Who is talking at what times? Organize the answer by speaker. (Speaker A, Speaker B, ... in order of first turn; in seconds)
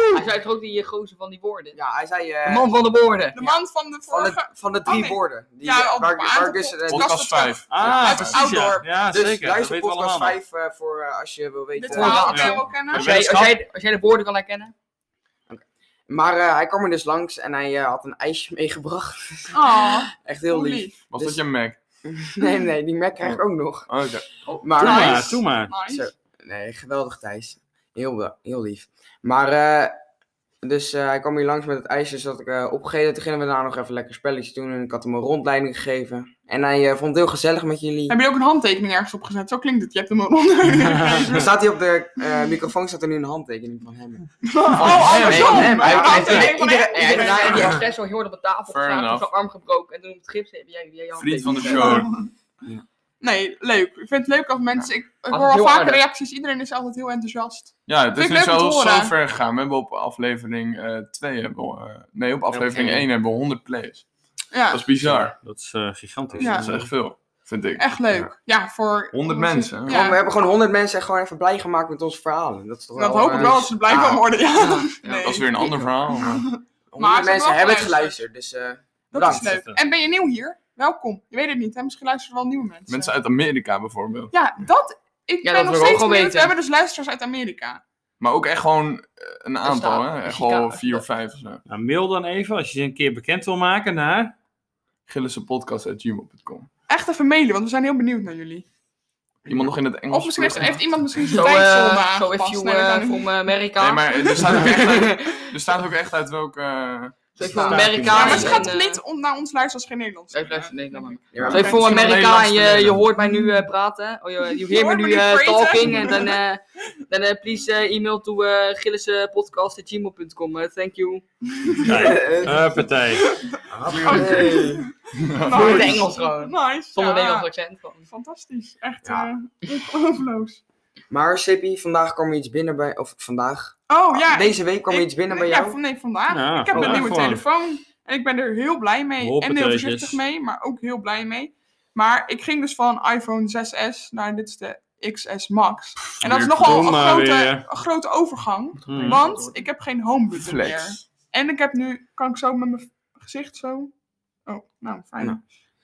Speaker A: 0.1-1.8, 2.4-3.5, 11.9-14.7, 45.2-52.0, 55.3-56.0, 62.5-63.0, 74.5-75.7, 85.4-86.5, 89.6-91.0, 100.5-105.4, 107.4-109.0, 110.3-121.2, 125.4-128.1, 148.9-149.5
Speaker B: 1.7-2.7, 4.1-7.1, 9.1-12.5, 15.5-21.4, 22.0-23.9, 24.5-29.9, 30.6-38.2, 41.2-47.8, 69.8-74.2, 76.9-79.5, 107.4-108.6, 111.3-111.9, 121.8-122.8, 123.7-124.8, 129.0-129.3, 131.1-135.8, 136.7-137.1
Speaker C: 3.3-8.9, 11.8-13.2, 19.5-21.0, 24.8-26.1, 38.1-41.5, 44.4-47.8, 51.7-52.2, 53.2-59.1, 64.5-64.8, 66.4-66.7, 67.8-70.2, 73.0-78.2, 79.1-83.1, 84.3-87.8, 96.9-98.7, 100.1-103.3, 104.4-104.6, 107.8-111.9, 114.6-116.4, 121.7-122.1, 123.2-123.5, 124.0-127.5, 128.1-130.6, 133.9-153.9, 154.4-155.4
Speaker D: 6.8-8.4, 21.1-21.8, 23.2-24.2, 44.8-45.6, 48.7-49.3, 51.1-52.1, 57.9-64.0, 64.7-65.3, 66.4-67.8, 69.1-70.1, 75.2-76.4, 82.9-84.3, 88.2-91.6, 95.1-96.7, 99.5-100.8, 103.8-107.3, 111.3-113.0, 123.9-124.5, 125.1-126.1, 150.3-151.1
Speaker E: 7.7-10.4, 12.1-13.6, 24.8-25.7, 44.9-45.5, 65.0-66.9, 79.2-79.8, 91.7-94.3, 107.5-108.6, 111.9-112.8, 121.8-123.4, 136.3-137.4, 139.2-140.2, 146.2-147.7, 148.9-149.2